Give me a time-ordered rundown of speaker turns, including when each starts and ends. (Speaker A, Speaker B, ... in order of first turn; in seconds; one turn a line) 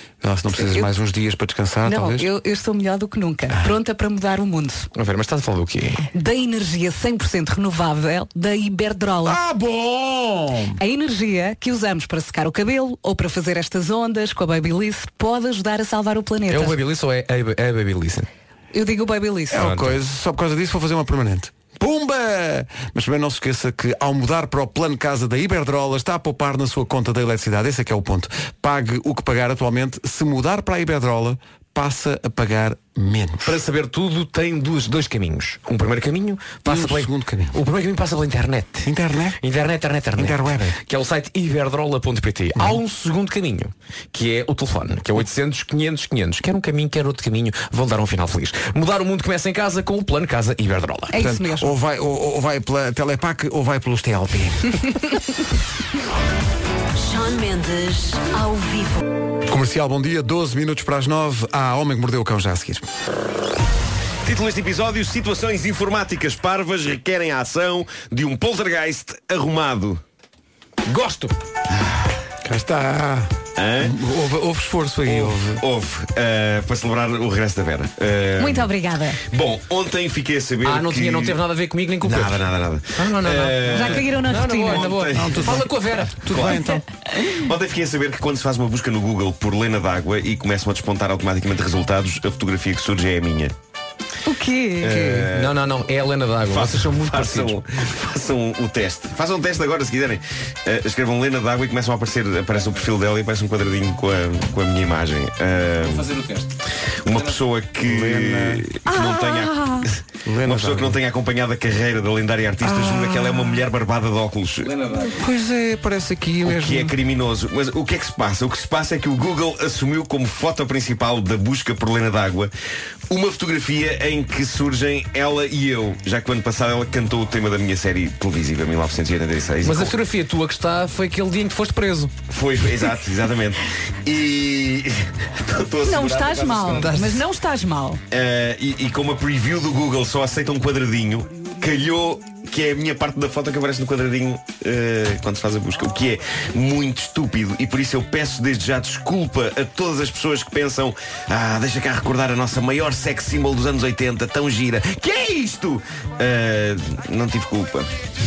Speaker A: 0.2-2.3
Speaker B: 0.6-0.9
Speaker B: 1.9-4.9
Speaker C: 4.9-6.1
Speaker B: 6.1-9.4
Speaker A: 9.2-10.8
Speaker B: 10.8-16.8
Speaker C: 16.5-18.3
Speaker B: 18.7-19.6
Speaker A: 19.5-33.6
Speaker C: 19.6-19.9
Speaker C: 33.4-51.1
Speaker A: 36.6-37.5
Speaker A: 38.8-39.4
Speaker A: 40.1-40.8
Speaker B: 51.1-51.7
Speaker A: 51.2-54.8
Speaker D: 57.0-59.0
Speaker A: 59.5-62.9
Speaker E: 64.2-70.0
Speaker C: 70.8-71.3
Speaker E: 71.7-72.0
Speaker A: 72.4-75.6
Speaker E: 73.5-74.0
Speaker E: 75.0-81.4
Speaker B: 78.4-79.2
Speaker C: 80.6-86.3
Speaker E: 82.0-84.2
Speaker B: 83.7-84.9
Speaker E: 84.7-85.7
Speaker A: 85.1-86.8
Speaker E: 86.3-86.7
Speaker E: 87.3-93.5
Speaker B: 94.2-95.3
Speaker E: 94.8-95.6
Speaker C: 95.3-97.6
Speaker E: 96.5-106.1
Speaker C: 105.8-106.5
Speaker E: 107.0-114.7
Speaker A: 107.8-108.7
Speaker B: 108.9-109.9
Speaker A: 110.2-111.0
Speaker A: 112.6-113.6
Speaker C: 114.6-115.2
Speaker A: 114.9-116.9
Speaker E: 116.4-122.5
Speaker E: 123.1-129.9
Speaker C: 129.6-132.1
Speaker E: 132.3-137.0
Speaker B: 135.8-138.0
Speaker E: 138.1-157.9